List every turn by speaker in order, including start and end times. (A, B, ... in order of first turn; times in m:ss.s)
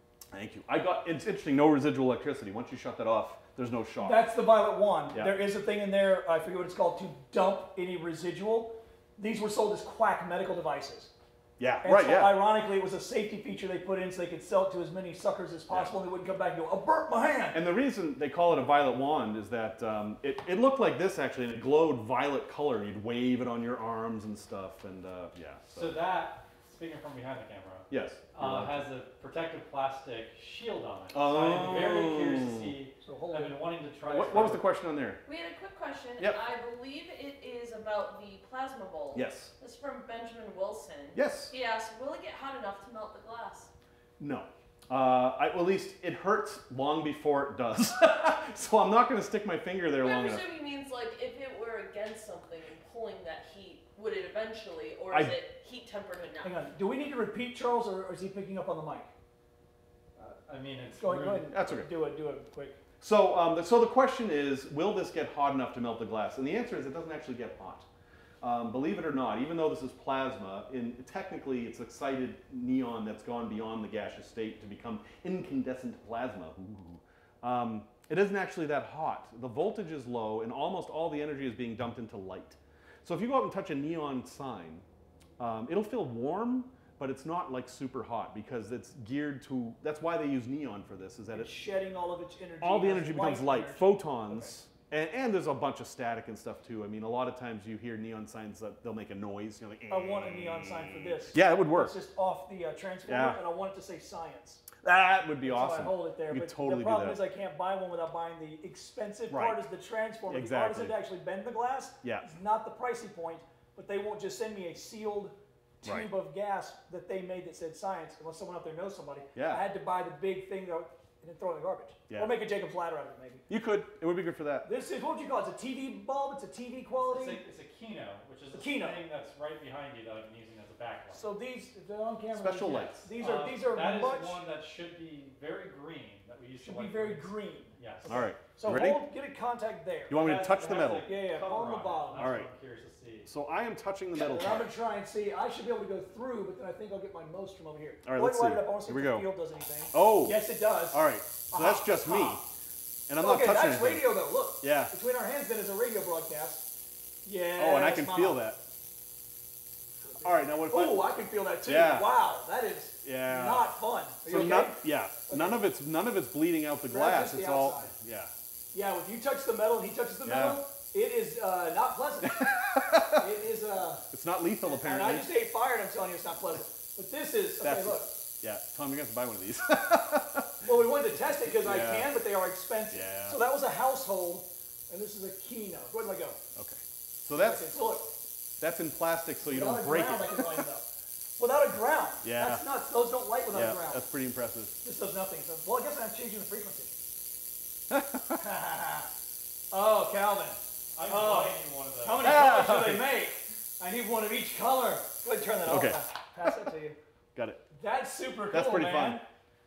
0:00.3-0:04.2 A
0:04.0-0:11.1 B
0:05.1-0:05.4 A
0:11.6-0:12.4 A
0:11.8-0:17.6 B
0:15.7-0:15.9 A
0:17.5-0:26.0 A
0:25.7-0:34.6 C
0:27.9-0:28.8 A
0:31.1-0:32.7 A
0:33.0-0:33.6 B
0:34.0-0:35.2 A
0:35.2-0:43.7 D
0:39.1-0:39.5 A
0:41.1-0:41.5 A
0:44.2-0:50.4 A
0:50.0-0:56.6 D
0:55.1-0:55.4 A
0:56.4-0:59.1 B
1:00.1-1:01.6 C
1:01.0-1:02.8 B
1:01.5-1:01.9 A
1:03.0-1:07.8 A
1:08.4-1:24.8 A
1:25.4-1:31.6 A
1:31.3-1:34.5 B
1:32.6-1:41.9 A
1:39.9-1:44.7 B
1:43.1-1:43.4 A
1:44.8-1:47.2 A
1:45.4-2:03.4 B
1:49.3-1:49.6 A
1:50.3-1:51.0 A
1:52.0-1:52.3 A
1:55.8-1:56.1 A
1:59.3-1:59.6 A
2:02.1-2:02.4 A
2:03.5-2:04.7 A
2:04.6-2:07.4 B
2:07.1-2:11.2 C
2:08.5-2:09.0 B
2:11.1-2:14.4 B
2:12.3-2:13.1 A
2:13.2-2:18.3 C
2:16.6-2:22.4 B
2:18.1-2:19.1 A
2:20.1-2:21.1 A
2:20.1-2:23.3 C
2:22.1-2:22.5 A
2:23.2-2:24.7 A
2:24.1-2:32.4 B
2:28.0-2:29.3 A
2:29.9-2:32.4 A
2:33.1-2:34.1 A
2:33.2-2:36.7 B
2:34.6-2:34.9 A
2:37.2-2:38.4 B
2:37.6-2:38.6 A
2:40.0-2:45.6 B
2:40.2-2:41.1 A
2:41.6-2:42.1 A
2:43.0-2:43.7 A
2:44.2-2:48.3 A
2:46.9-2:47.9 B
2:48.7-2:54.1 B
2:50.2-2:50.6 A
2:52.3-2:53.2 A
2:54.1-2:55.3 A
2:54.6-2:58.2 B
2:57.6-3:00.6 A
3:00.6-3:06.4 B
3:01.5-3:02.1 A
3:02.9-3:03.4 A
3:06.6-3:07.7 A
3:07.3-3:08.1 B
3:08.6-3:10.6 A
3:09.4-3:10.9 B
3:11.4-3:14.0 B
3:12.2-3:12.6 A
3:13.5-3:14.8 A
3:14.8-3:16.9 B
3:17.9-3:18.4 A
3:18.4-3:19.1 B
3:19.7-3:27.0 B
3:20.9-3:22.4 C
3:22.2-3:23.0 A
3:25.7-3:26.6 A
3:27.3-3:27.6 A
3:27.7-3:29.2 B
3:28.5-3:29.2 A